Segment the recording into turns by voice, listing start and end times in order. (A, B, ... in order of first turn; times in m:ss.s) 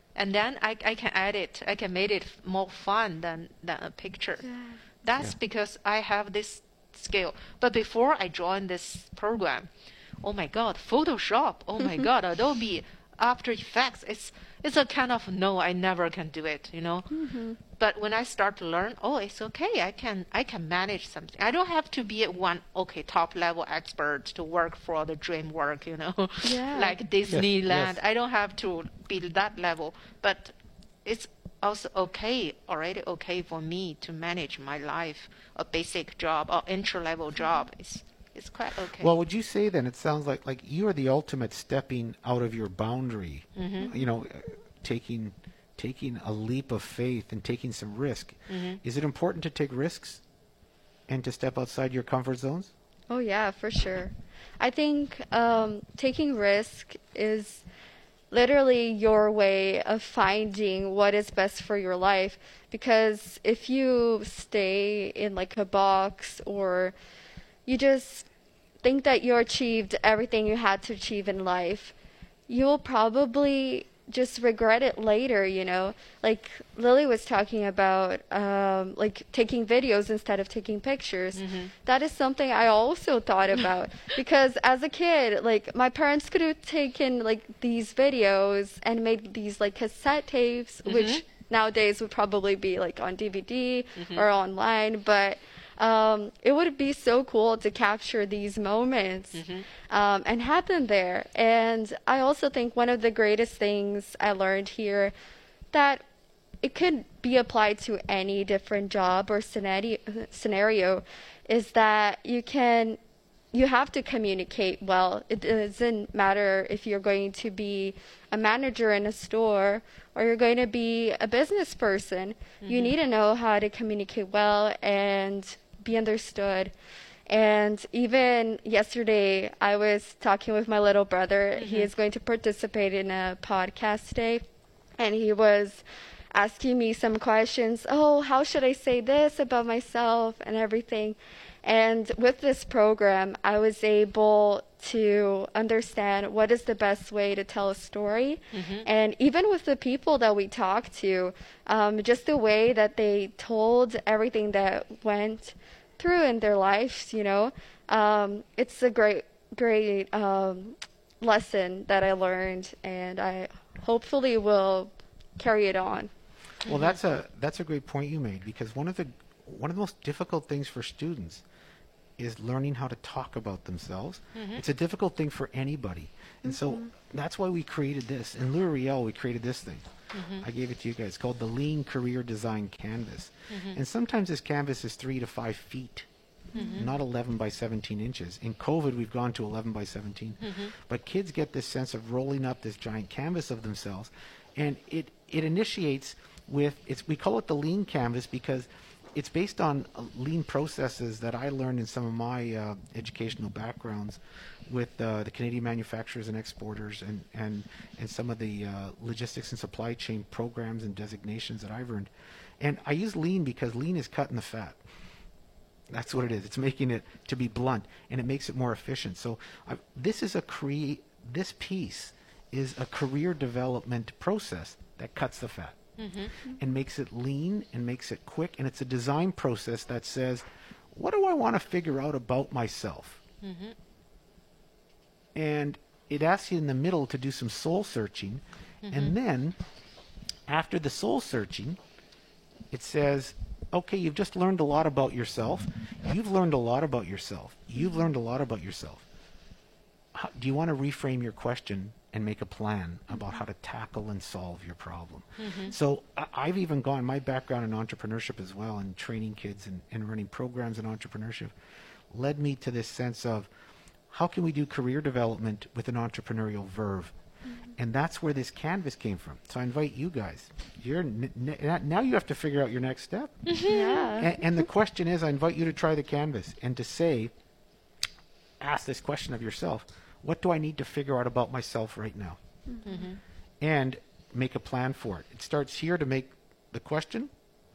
0:00.1-0:04.5 A
0:04.4-0:04.8 B
0:05.0-0:09.7 A
0:10.2-0:17.1 A
0:17.1-0:17.6 B
0:17.8-0:30.5 A
0:26.4-0:27.0 B
0:27.3-0:28.0 C
0:31.0-0:39.1 A
0:39.0-0:50.2 C
0:43.6-0:43.9 A
0:43.8-0:44.1 B
0:48.5-0:48.8 A
0:51.1-0:52.7 C
0:53.1-0:57.6 B
0:58.3-1:07.0 B
1:07.6-1:08.3 B
1:08.8-1:11.9 B
1:12.5-1:45.1 B
1:21.4-1:21.7 A
1:30.9-1:31.2 A
1:34.0-1:34.3 A
1:39.4-1:39.6 A
1:45.7-1:46.0 B
1:46.6-1:53.0 B
1:53.5-2:06.7 B
2:02.6-2:03.0 A
2:07.3-2:14.4 B
2:11.6-2:11.9 A
2:15.0-2:46.1 B
2:28.5-2:28.9 A
2:46.6-2:51.4 C
2:46.7-2:47.0 A
2:52.2-2:59.9 C
2:54.3-2:54.6 A
2:56.4-2:56.9 B
3:00.1-3:00.4 A
3:00.4-3:06.1 C
3:03.5-3:03.8 A
3:06.6-3:06.9 B
3:06.6-3:06.9 A
3:06.7-3:34.8 C
3:10.4-3:10.7 A
3:35.9-3:45.8 C
3:46.0-3:46.3 A
3:46.4-3:53.2 C
3:53.4-3:53.8 A
3:55.4-3:59.6 C
3:58.8-3:59.1 A
4:00.5-4:01.8 C
4:02.7-4:09.0 C
4:10.1-4:21.5 C
4:15.4-4:15.8 A
4:22.1-4:23.5 C
4:24.1-4:27.1 C
4:27.8-4:33.4 C
4:33.5-4:34.1 A
4:33.7-4:34.3 B
4:34.2-4:37.3 C
4:38.6-4:42.4 C
4:42.7-4:43.0 B
4:42.9-4:43.2 A
4:43.6-4:47.3 C